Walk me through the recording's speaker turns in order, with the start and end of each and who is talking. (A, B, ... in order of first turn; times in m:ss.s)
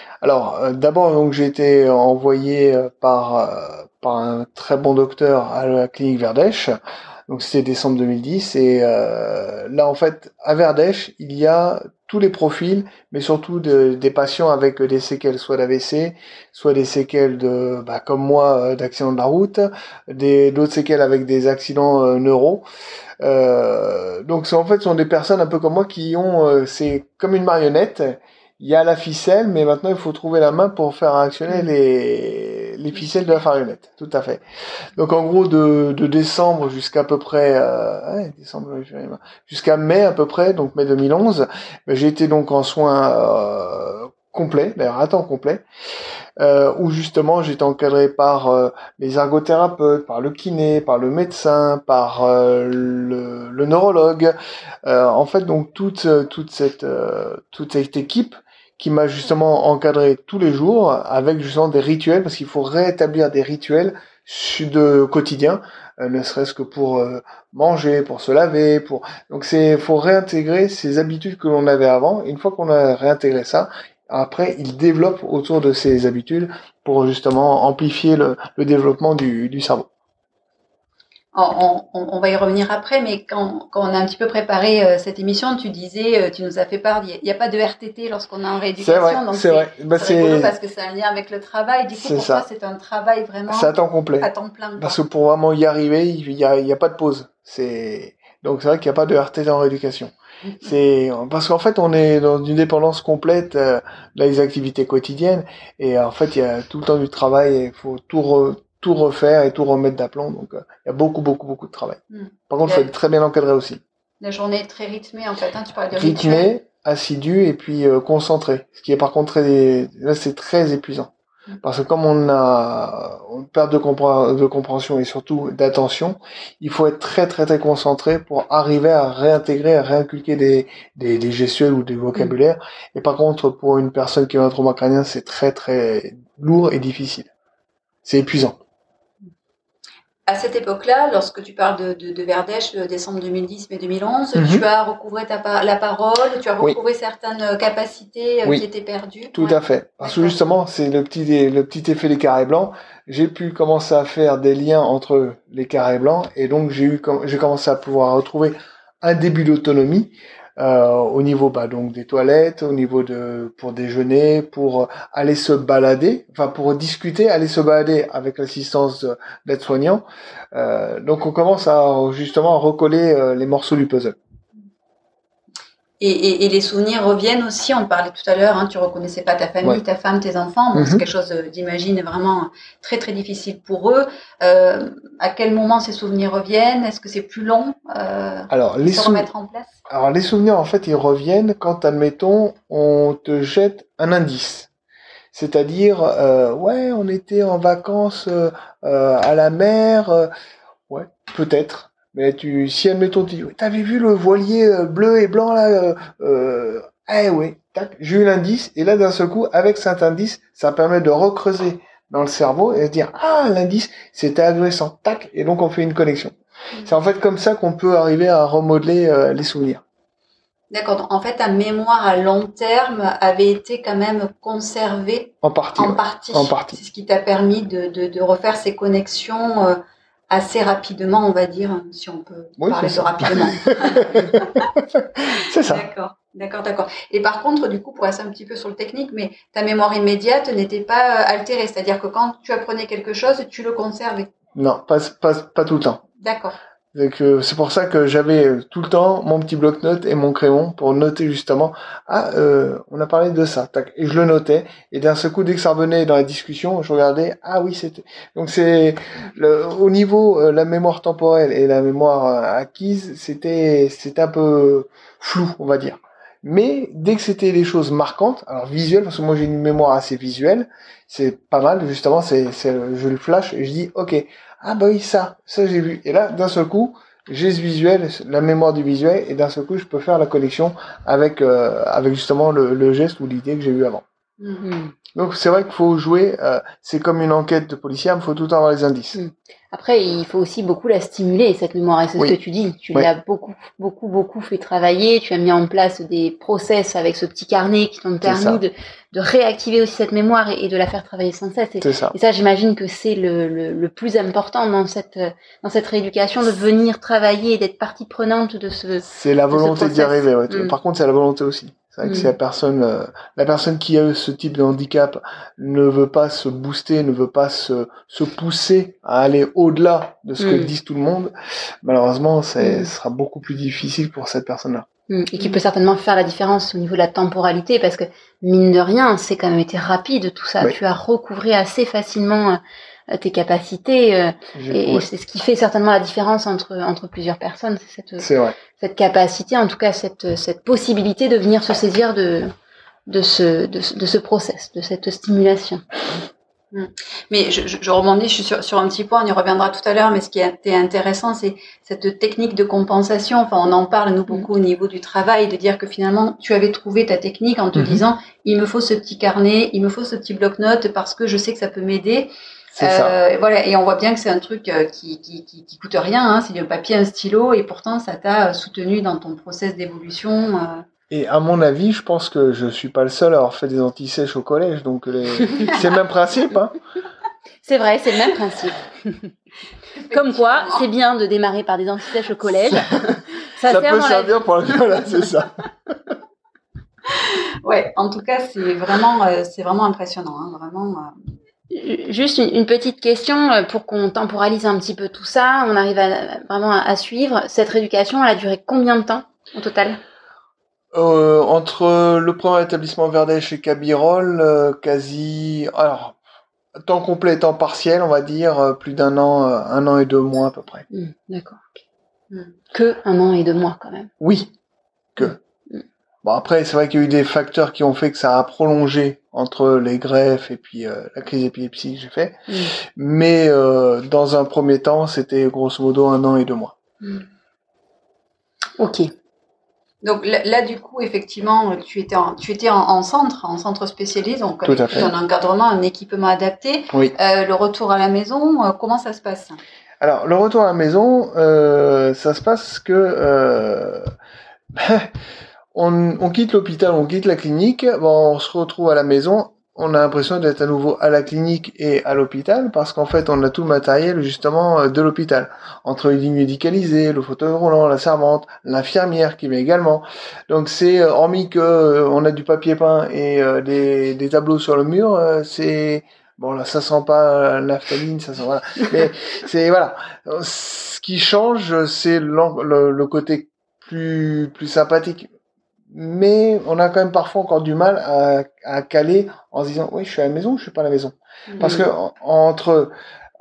0:00.2-0:22.6 A
0:23.2-0:34.4 A
0:34.9-0:45.6 A
0:46.4-0:54.3 A
0:54.8-1:19.9 A
1:21.3-1:35.0 B
1:28.8-1:30.5 A
1:32.0-1:32.4 A
1:33.5-1:53.8 A
1:52.1-1:52.9 B
1:54.2-1:56.5 B
1:55.9-2:01.1 A
2:01.6-2:17.3 A
2:18.0-2:18.6 A
2:20.3-2:30.4 B
2:24.3-2:24.6 A
2:29.3-2:54.2 A
2:56.0-3:09.8 B
3:00.7-3:01.0 A
3:08.5-3:09.3 A
3:09.9-3:14.7 A
3:15.3-3:20.3 A
3:20.9-3:39.8 A
3:40.7-3:49.8 B
3:45.4-3:46.8 A
3:50.3-3:54.6 B
3:52.6-3:55.8 A
3:55.6-4:04.3 B
4:04.5-4:06.0 A
4:06.2-4:06.6 B
4:06.9-4:44.0 A
4:44.4-4:44.6 B
4:44.6-4:44.9 C
4:45.1-4:49.2 A
4:49.1-5:10.7 C
4:58.2-4:58.6 A
5:01.8-5:02.2 A
5:09.0-5:21.3 A
5:12.0-5:12.3 C
5:20.4-5:20.7 C
5:21.8-5:24.8 A
5:22.6-5:22.9 C
5:25.1-5:42.5 C
5:34.5-5:35.0 A
5:38.2-5:38.5 A
5:43.1-5:45.8 C
5:46.7-6:10.8 B
5:57.7-5:58.0 A
6:02.7-6:03.2 A
6:11.1-6:16.8 A
6:17.6-6:19.3 C
6:19.9-6:20.9 B
6:20.1-6:24.4 C
6:23.6-6:26.1 A
6:27.1-6:31.1 B
6:31.7-6:40.0 C
6:40.9-6:46.2 A
6:46.8-6:50.8 A
6:50.9-6:51.8 C
6:52.7-6:54.1 C
6:54.2-6:54.5 A
6:55.2-6:55.8 C
6:56.2-7:06.8 A
7:02.5-7:02.7 C
7:08.8-7:09.1 C
7:10.0-7:19.6 B
7:14.6-7:15.1 A
7:20.0-7:24.1 A
7:24.7-7:25.1 A
7:25.7-7:55.3 A
7:55.9-8:02.9 A